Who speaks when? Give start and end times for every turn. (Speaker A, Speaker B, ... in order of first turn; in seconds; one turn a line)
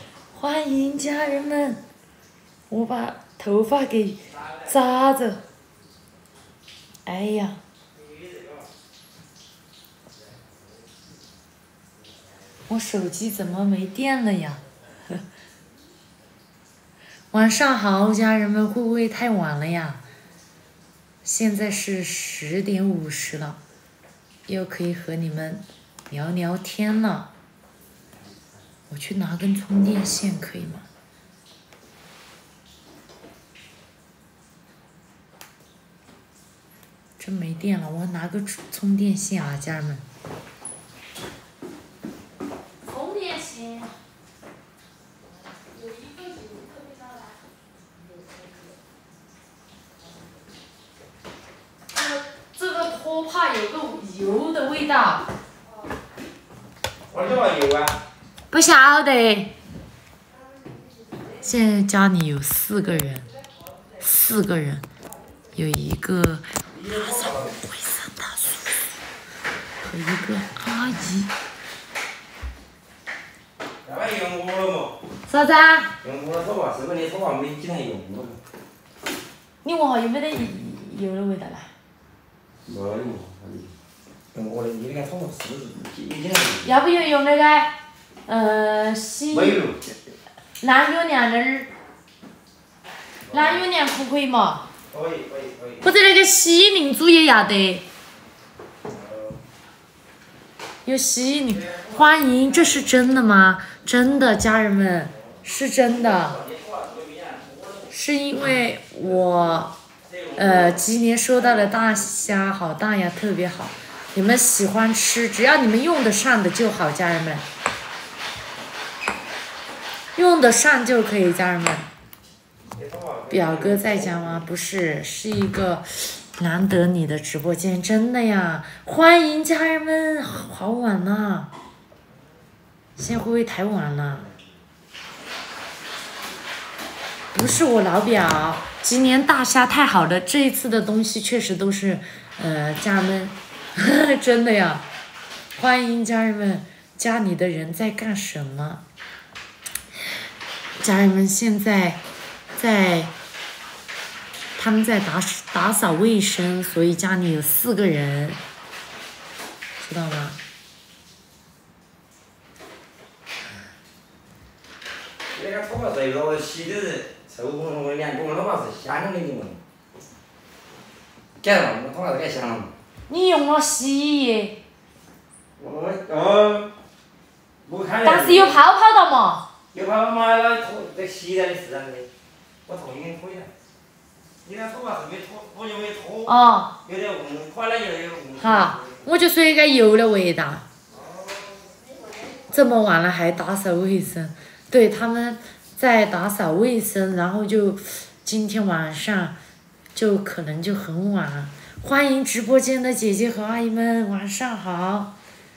Speaker A: 0.3-1.8
Speaker A: 2.7-5.4
Speaker A: 7.1-7.6
Speaker B: 8.0-8.7
Speaker A: 12.7-14.6
Speaker A: 17.3-20.0
Speaker A: 21.2-23.6
Speaker A: 24.5-27.3
Speaker A: 28.9-30.9
Speaker A: 37.2-40.0
Speaker A: 42.9-43.9
Speaker A: 45.8-47.2
Speaker A: 51.9-55.3
Speaker B: 57.1-58.0
Speaker A: 58.5-59.6
Speaker A: 61.4-63.3
Speaker A: 64.0-64.9
Speaker A: 65.5-68.9
Speaker B: 66.7-67.6
Speaker A: 69.8-71.3
Speaker B: 73.8-75.0
Speaker A: 75.3-75.9
Speaker B: 76.0-78.4
Speaker A: 79.6-81.7
Speaker B: 82.7-83.7
Speaker B: 84.3-86.7
Speaker A: 86.6-87.7
Speaker A: 88.3-89.6
Speaker B: 89.3-89.8
Speaker A: 90.6-91.7
Speaker B: 93.3-93.7
Speaker A: 93.3-94.7
Speaker B: 94.9-95.8
Speaker A: 95.8-97.9
Speaker B: 98.9-99.4
Speaker A: 100.8-106.4
Speaker B: 101.5-102.9
Speaker B: 105.9-107.9
Speaker A: 107.9-109.7
Speaker B: 110.1-110.9
Speaker A: 110.4-117.5
Speaker A: 120.2-121.9
Speaker B: 122.7-124.5
Speaker A: 123.3-131.5
Speaker A: 133.0-134.3
Speaker A: 137.3-144.9
Speaker A: 145.6-148.8
Speaker A: 150.8-152.0
Speaker A: 152.6-153.1
Speaker A: 154.6-158.4
Speaker A: 159.8-160.4
Speaker B: 165.3-169.6
Speaker B: 171.4-172.7
Speaker A: 173.1-174.6
Speaker B: 175.6-176.7
Speaker B: 177.7-178.6
Speaker A: 178.0-179.5
Speaker B: 179.7-182.1
Speaker B: 182.7-183.5
Speaker B: 184.4-189.0
Speaker A: 186.3-186.8
Speaker A: 188.4-190.7
Speaker B: 190.9-191.7
Speaker A: 192.5-199.4
Speaker A: 199.9-205.2